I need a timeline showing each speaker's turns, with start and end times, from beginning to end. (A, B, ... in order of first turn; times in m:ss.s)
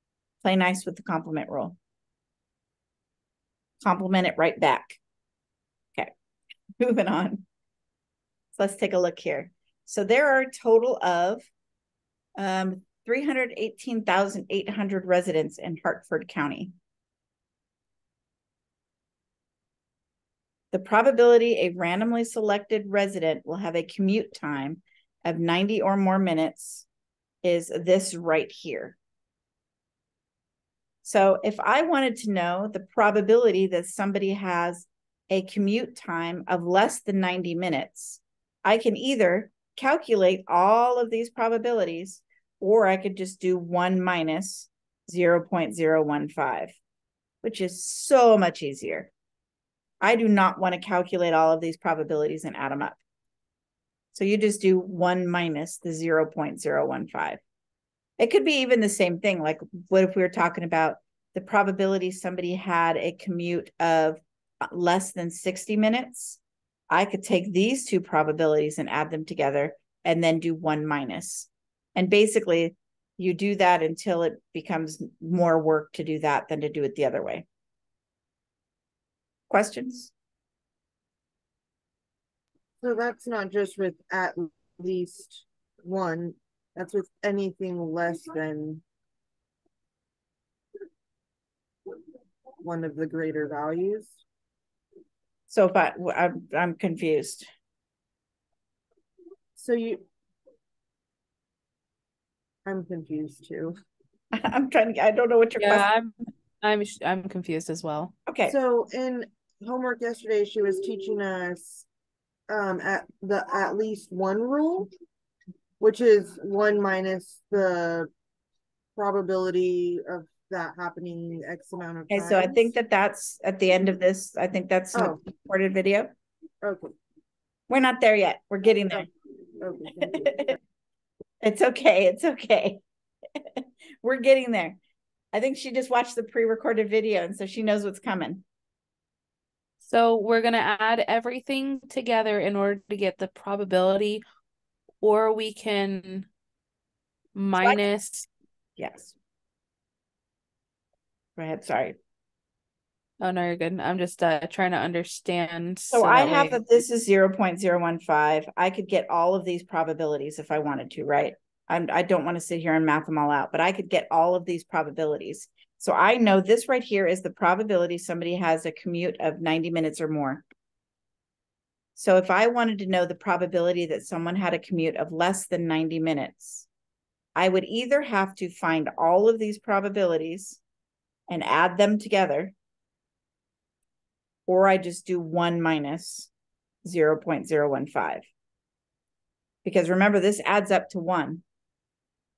0:00.4-0:01.8 A
0:03.8-0:05.0 A
0:06.8-0:07.4 A
0:08.6-0:11.5 A
0:12.4-0:16.7 A
0:20.7-0:26.9 A
0:27.4-0:29.0 A
0:31.0-0:46.8 A
0:47.4-0:49.1 A
0:50.0-0:53.0 A
0:54.1-0:57.4 A
0:58.2-1:06.4 A
1:06.9-1:17.5 A
1:19.5-1:20.1 A
1:22.8-1:28.8 B
1:32.6-1:34.2 B
1:35.5-1:37.5 A
1:39.6-1:40.0 B
1:42.7-1:43.8 B
1:44.3-1:45.9 A
1:45.6-1:48.1 C
1:48.3-1:48.5 A
1:48.4-1:51.9 B
1:52.5-1:54.9 B
1:55.8-1:58.1 B
1:59.0-2:02.7 B
2:02.1-2:06.1 A
2:04.9-2:05.2 B
2:06.6-2:06.9 B
2:07.7-2:09.1 A
2:09.6-2:10.6 B
2:11.4-2:12.8 A
2:13.4-2:14.8 A
2:15.3-2:18.4 A
2:19.8-2:24.2 C
2:25.0-2:26.3 C
2:27.4-2:28.3 C
2:28.8-2:29.1 A
2:31.4-2:32.0 A
2:33.2-2:36.6 C
2:35.9-2:50.4 A
2:52.0-2:56.7 A
2:57.4-3:00.6 A
3:01.3-3:02.5 A
3:04.5-3:06.3 A
3:06.8-3:08.3 A
3:09.6-3:11.4 A